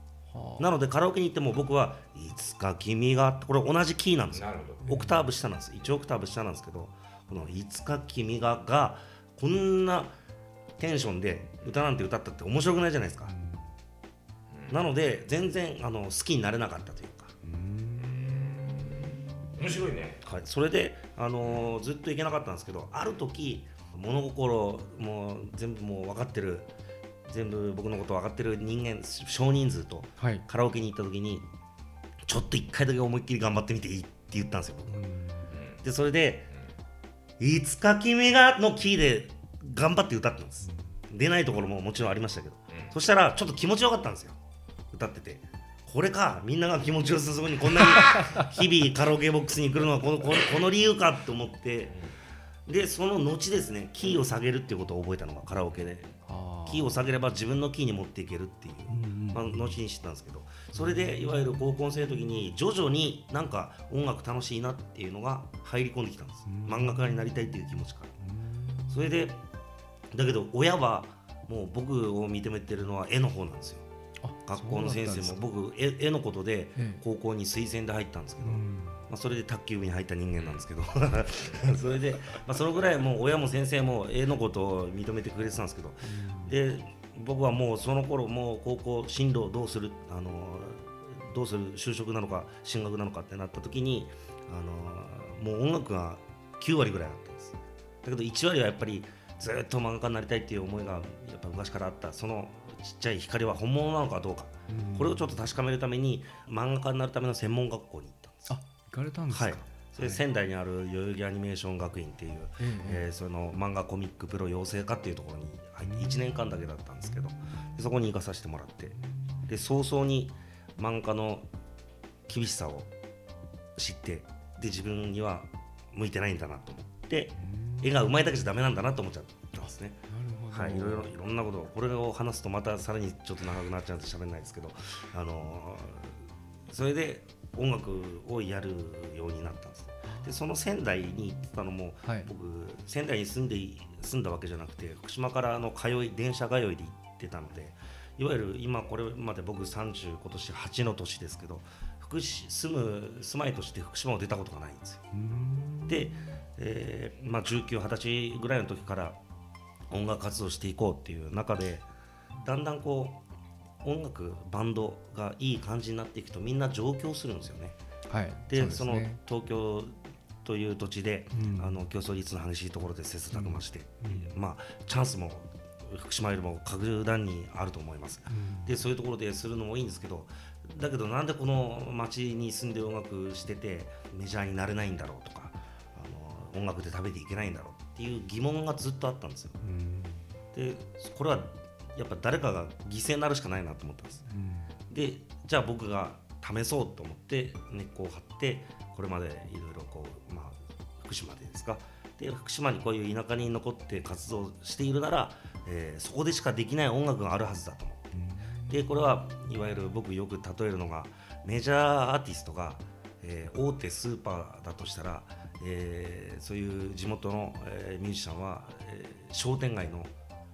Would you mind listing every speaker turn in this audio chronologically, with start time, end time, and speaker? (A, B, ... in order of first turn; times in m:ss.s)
0:00.3-0:00.7 A
0:00.6-0:10.2 B
0:04.3-0:05.0 C
0:04.8-0:05.2 A
0:10.8-0:13.3 B
0:13.3-0:13.7 A
0:14.5-0:14.8 C
0:14.7-0:17.3 B
0:17.4-0:18.8 A
0:18.0-0:20.2 C
0:20.2-0:26.7 B
0:21.4-0:21.7 C
0:27.2-0:31.5 B
0:30.2-0:30.4 A
0:32.3-0:35.0 B
0:34.9-0:35.5 A
0:35.5-0:35.8 C
0:35.8-0:36.5 B
0:37.4-0:44.4 B
0:40.6-0:41.0 A
0:44.9-0:52.0 B
0:48.0-0:48.4 A
0:52.7-0:56.1 B
0:56.2-0:57.0 A
0:56.6-1:08.2 B
0:58.9-0:59.8 A
1:00.7-1:01.3 A
1:06.5-1:07.3 A
1:08.2-1:09.0 A
1:08.9-1:09.4 B
1:10.1-1:13.9 B
1:14.2-1:15.4 A
1:14.4-1:48.6 B
1:16.8-1:17.0 A
1:18.4-1:19.0 A
1:26.0-1:26.5 A
1:44.7-1:45.4 A
1:48.5-1:50.2 A
1:49.3-2:01.5 B
1:52.6-1:53.0 A
1:55.8-1:56.4 A
1:57.1-1:57.7 A
1:59.0-1:59.5 A
2:02.3-2:02.9 B
2:03.8-2:35.0 B
2:07.4-2:08.2 A
2:10.1-2:11.1 A
2:20.0-2:20.4 A
2:22.0-2:22.3 A
2:35.1-2:36.4 A
2:35.9-2:39.2 B
2:39.9-2:41.9 B
2:42.4-2:43.2 B
2:43.8-2:47.8 B
2:48.1-2:49.2 A
2:48.5-3:09.6 B
2:51.3-2:51.8 A
2:53.3-2:54.3 A
2:58.3-2:58.7 A
3:09.6-3:10.3 A
3:10.5-3:14.3 B
3:14.3-3:14.7 A
3:14.9-3:28.1 B
3:28.1-3:28.9 A
3:28.7-3:40.1 B